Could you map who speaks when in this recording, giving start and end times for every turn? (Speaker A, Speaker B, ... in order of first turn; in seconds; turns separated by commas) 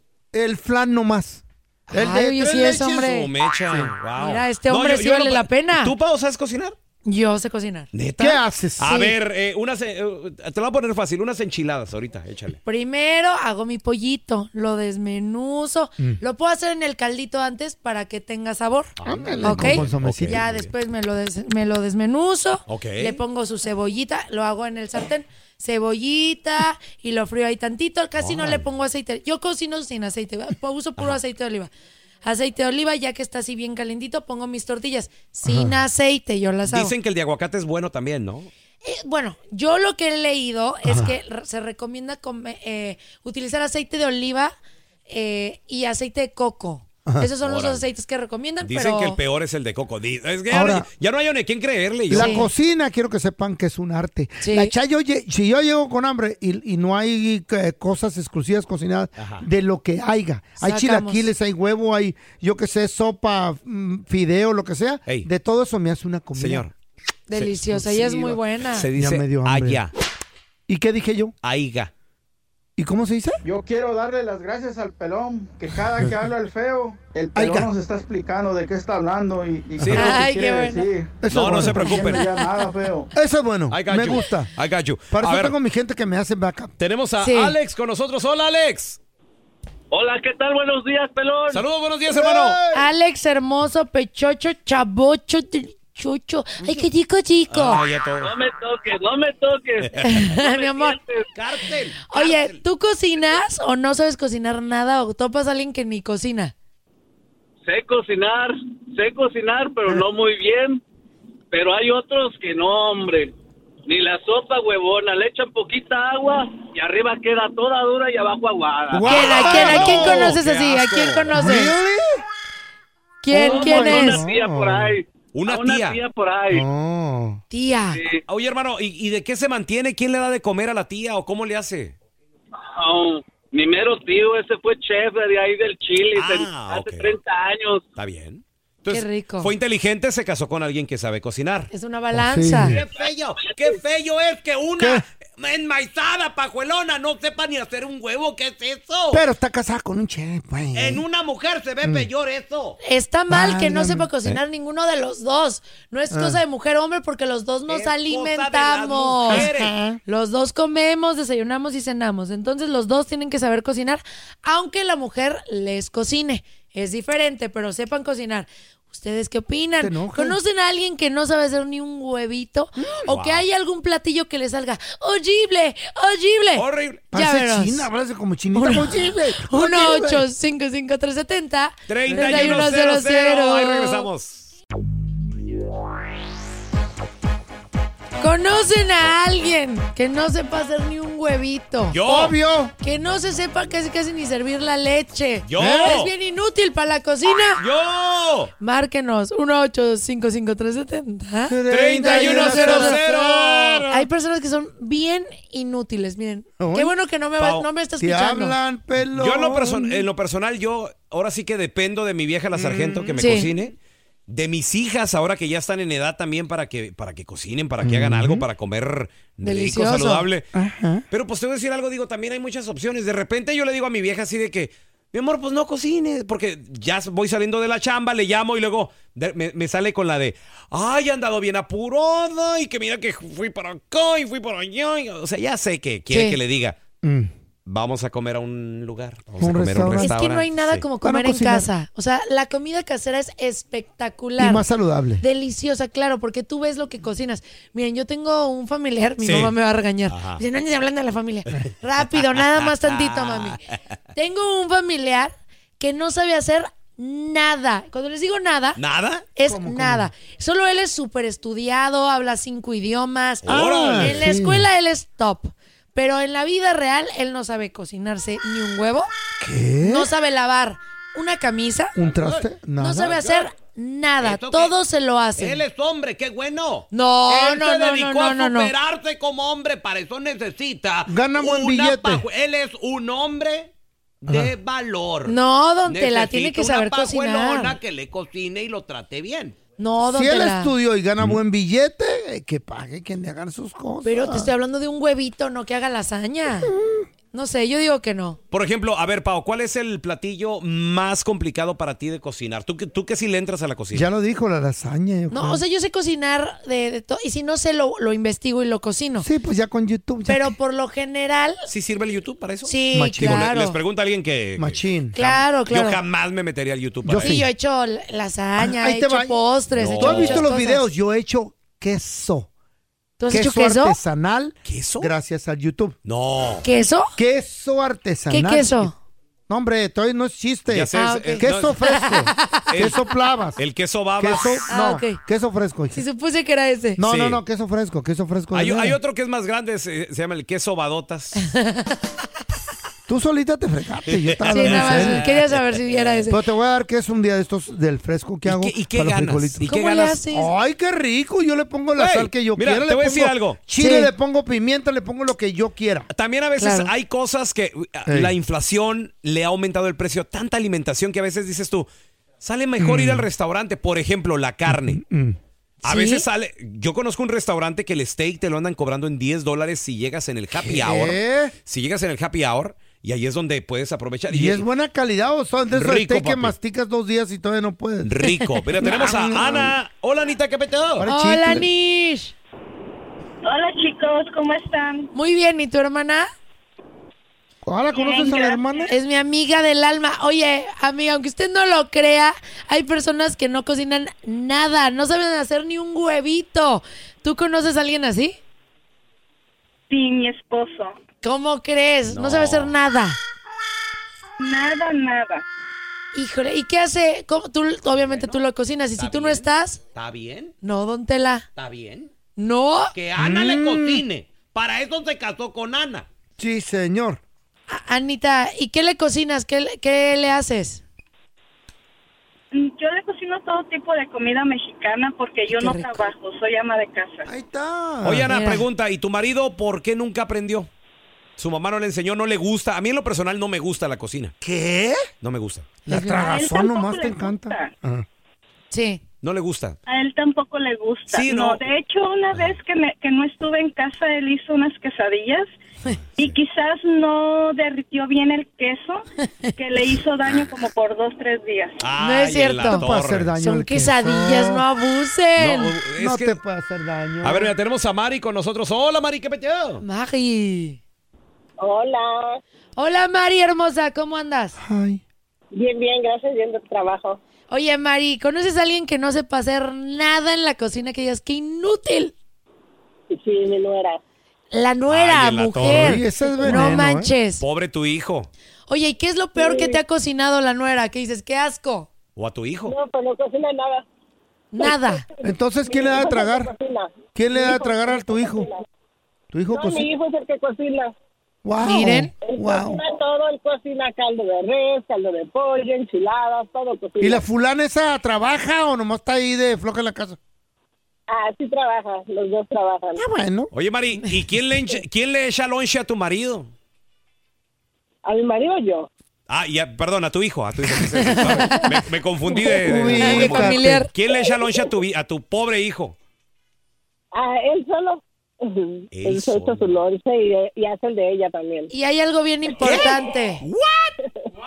Speaker A: 0.3-3.1, Speaker B: 1.9-3.3, Speaker C: 2.4-6.8, Speaker B: 4.2-5.9, Speaker B: 7.0-7.9, Speaker C: 7.9-12.6, Speaker A: 8.2-9.1, Speaker B: 12.6-31.7, Speaker C: 19.0-20.7, Speaker A: 19.0-20.4, Speaker C: 22.7-23.2, Speaker C: 28.2-28.6, Speaker B: 32.2-36.9, Speaker A: 35.5-35.8, Speaker C: 36.6-38.5, Speaker B: 38.8-44.5, Speaker A: 40.9-41.1, Speaker B: 45.1-49.2, Speaker C: 47.4-47.9, Speaker C: 48.6-52.4, Speaker A: 50.5-50.9, Speaker A: 52.1-66.7, Speaker B: 52.1-52.5, Speaker B: 54.4-54.7, Speaker C: 59.2-59.4, Speaker B: 60.6-61.3, Speaker C: 66.3-66.7, Speaker B: 67.3-68.8, Speaker A: 67.7-68.4, Speaker C: 68.7-69.9, Speaker A: 68.9-69.8, Speaker A: 70.7-71.3, Speaker C: 71.4-71.9, Speaker A: 72.8-73.4, Speaker D: 73.4-81.2, Speaker A: 77.3-77.7, Speaker C: 79.8-80.2, Speaker B: 79.9-80.9, Speaker A: 81.2-82.1, Speaker C: 81.3-82.3, Speaker B: 81.6-82.5, Speaker D: 82.2-83.1, Speaker A: 83.1-84.5, Speaker C: 83.7-85.5, Speaker A: 85.1-86.7, Speaker C: 86.8-89.0, Speaker B: 87.2-87.5, Speaker E: 89.9-91.6, Speaker C: 91.5-92.6, Speaker A: 92.1-92.9, Speaker B: 92.7-97.8, Speaker C: 97.5-98.3, Speaker E: 98.2-101.3, Speaker C: 99.8-100.2, Speaker B: 100.0-101.0, Speaker C: 101.3-102.6, Speaker B: 102.1-106.5, Speaker E: 107.7-110.8, Speaker E: 111.5-113.3, Speaker E: 113.8-119.2, Speaker A: 118.9-120.3, Speaker C: 119.0-121.4, Speaker B: 119.0-121.7, Speaker A: 121.3-122.2, Speaker B: 123.2-124.2, Speaker A: 123.3-124.9, Speaker E: 123.3-126.6, Speaker C: 125.3-126.0, Speaker A: 126.5-127.4, Speaker B: 127.5-128.0, Speaker E: 128.0-128.2, Speaker C: 128.3-132.0, Speaker E: 132.6-137.8, Speaker C: 136.1-137.1, Speaker C: 137.9-141.7, Speaker B: 138.9-139.5, Speaker B: 141.7-142.8, Speaker A: 142.1-142.8, Speaker C: 142.5-149.2, Speaker E: 143.4-143.8, Speaker A: 144.8-145.0, Speaker A: 149.1-151.0, Speaker C: 150.7-152.8, Speaker A: 151.8-152.1, Speaker B: 152.8-159.5, Speaker A: 153.3-154.1, Speaker A: 156.1-156.4, Speaker C: 157.7-159.7, Speaker A: 159.3-160.0, Speaker B: 160.1-177.9, Speaker A: 169.8-170.4, Speaker C: 173.1-173.4, Speaker C: 176.6-177.0, Speaker A: 177.1-180.2, Speaker B: 178.5-184.1, Speaker C: 181.9-184.5, Speaker A: 182.1-182.7, Speaker B: 188.2-192.0, Speaker C: 191.9-192.3, Speaker A: 192.0-192.7, Speaker B: 192.8-197.6, Speaker C: 195.4-196.1, Speaker A: 195.6-196.0, Speaker C: 197.6-198.5, Speaker B: 198.6-203.0, Speaker A: 201.5-203.9, Speaker C: 201.7-203.9, Speaker B: 203.9-208.6, Speaker A: 206.6-206.9, Speaker C: 207.4-207.7, Speaker A: 208.0-210.1, Speaker C: 209.1-213.8, Speaker A: 212.5-213.4, Speaker B: 213.2-213.5, Speaker C: 214.3-220.4, Speaker A: 217.8-218.4, Speaker B: 219.4-220.2, Speaker A: 220.5-221.0, Speaker C: 221.1-236.8, Speaker B: 236.1-236.4, Speaker A: 237.0-237.3, Speaker C: 237.7-240.8, Speaker A: 239.4-240.1, Speaker B: 239.9-244.6, Speaker A: 241.0-241.7, Speaker A: 244.4-245.2, Speaker B: 245.2-253.6, Speaker C: 249.2-249.5, Speaker C: 250.1-250.4, Speaker C: 252.4-253.6, Speaker B: 254.1-258.8, Speaker C: 258.8-259.2, Speaker B: 259.4-269.1, Speaker A: 259.4-260.1, Speaker C: 263.4-264.3, Speaker A: 263.4-264.7, Speaker A: 269.4-270.1, Speaker B: 269.8-271.9, Speaker A: 271.9-273.2, Speaker C: 272.0-272.4, Speaker B: 272.8-275.6, Speaker C: 273.0-273.5, Speaker C: 274.2-274.7, Speaker C: 275.4-283.7, Speaker B: 276.9-278.7, Speaker A: 281.1-282.2, Speaker C: 284.2-289.6, Speaker A: 284.3-284.5, Speaker B: 285.2-287.8, Speaker B: 289.8-290.7, Speaker A: 290.0-294.5, Speaker B: 294.0-296.7, Speaker A: 296.6-297.0, Speaker B: 297.3-298.4, Speaker C: 298.5-304.1, Speaker A: 303.9-305.6, Speaker B: 305.3-309.3, Speaker A: 309.2-310.5, Speaker B: 310.3-311.6, Speaker C: 311.7-317.4, Speaker B: 312.6-313.8, Speaker A: 312.9-313.5, Speaker A: 314.6-315.2, Speaker B: 315.1-316.0, Speaker A: 317.0-317.5, Speaker B: 317.2-320.9, Speaker A: 318.6-319.4, Speaker C: 319.8-320.5, Speaker A: 320.0-322.5, Speaker B: 323.2-324.0, Speaker A: 323.3-325.9, Speaker C: 324.6-325.1, Speaker C: 326.0-326.6, Speaker B: 326.6-327.1, Speaker A: 327.2-328.9, Speaker B: 328.3-328.9, Speaker A: 329.5-333.6, Speaker C: 330.7-331.7, Speaker B: 330.9-332.6, Speaker C: 332.7-333.0, Speaker C: 333.6-334.7, Speaker A: 334.2-336.0, Speaker B: 334.7-335.2, Speaker B: 335.9-337.0, Speaker A: 337.0-339.0, Speaker C: 337.0-337.4, Speaker C: 338.5-341.4, Speaker B: 341.4-342.0, Speaker A: 343.1-345.2, Speaker C: 344.1-346.2, Speaker B: 344.5-346.4, Speaker A: 346.3-349.6, Speaker C: 348.4-350.2, Speaker B: 349.6-350.5, Speaker A: 350.3-356.1, Speaker C: 352.0-353.6, Speaker B: 353.8-354.1, Speaker C: 356.1-361.9, Speaker B: 356.6-356.9, Speaker A: 358.1-358.3, Speaker C: 362.4-365.0, Speaker A: 362.8-363.3, Speaker A: 364.7-365.4, Speaker B: 365.8-366.2, Speaker C: 365.8-374.6, Speaker A: 370.5-371.5, Speaker A: 374.3-379.8, Speaker C: 375.7-376.5, Speaker C: 378.0-381.0, Speaker A: 381.0-381.7, Speaker B: 381.1-382.3, Speaker F: 383.4-385.1, Speaker B: 385.1-386.3, Speaker A: 387.6-388.9, Speaker F: 387.9-388.9, Speaker B: 388.9-398.4, Speaker F: 399.9-400.9, Speaker B: 401.2-403.2, Speaker C: 402.1-402.7, Speaker F: 404.4-405.4, Speaker B: 406.1-409.8, Speaker C: 407.9-408.4, Speaker C: 409.0-410.5, Speaker B: 410.6-411.4, Speaker C: 411.6-412.1, Speaker B: 412.4-412.9, Speaker C: 412.9-416.1, Speaker A: 413.2-414.0, Speaker A: 416.4-417.2, Speaker B: 417.7-420.8, Speaker F: 422.5-427.3, Speaker B: 425.5-426.1, Speaker A: 427.2-428.5, Speaker C: 428.0-430.7, Speaker B: 428.2-428.6, Speaker C: 431.4-434.3, Speaker A: 434.4-435.0, Speaker C: 435.2-435.7, Speaker A: 435.9-438.1, Speaker B: 435.9-436.4, Speaker F: 436.1-437.7, Speaker B: 438.7-439.0, Speaker C: 439.2-439.8, Speaker F: 439.9-445.5, Speaker C: 441.1-441.7, Speaker F: 446.2-449.0, Speaker F: 449.6-451.9, Speaker C: 451.8-453.3, Speaker B: 452.0-452.9, Speaker A: 452.6-454.6, Speaker B: 453.4-455.7, Speaker C: 455.4-456.4, Speaker A: 456.0-457.5, Speaker C: 457.2-459.8, Speaker B: 459.8-460.8, Speaker G: 461.6-462.4, Speaker B: 462.8-464.6, Speaker A: 464.6-465.0, Speaker G: 465.5-467.2, Speaker B: 467.5-472.1, Speaker G: 473.1-474.0, Speaker B: 474.5-477.4, Speaker C: 474.9-476.8, Speaker A: 475.6-477.1, Speaker C: 477.4-478.3, Speaker B: 478.7-481.9, Speaker G: 479.4-479.8, Speaker C: 482.1-482.7, Speaker G: 482.7-483.8, Speaker B: 484.5-485.0, Speaker G: 484.6-488.6, Speaker A: 485.2-486.5, Speaker A: 487.1-488.4, Speaker A: 489.3-489.8, Speaker G: 489.5-490.9, Speaker A: 491.4-492.8, Speaker B: 491.6-492.1, Speaker G: 492.2-497.2, Speaker A: 497.0-500.2, Speaker G: 501.1-503.1, Speaker A: 502.9-503.5, Speaker C: 503.5-506.5, Speaker G: 508.0-508.9, Speaker C: 509.3-516.0, Speaker B: 510.9-511.8, Speaker A: 512.5-513.9, Speaker B: 512.8-513.9, Speaker G: 514.1-514.7, Speaker G: 517.1-521.7, Speaker C: 518.9-519.7, Speaker B: 521.7-523.4, Speaker C: 522.6-523.9, Speaker G: 524.0-524.3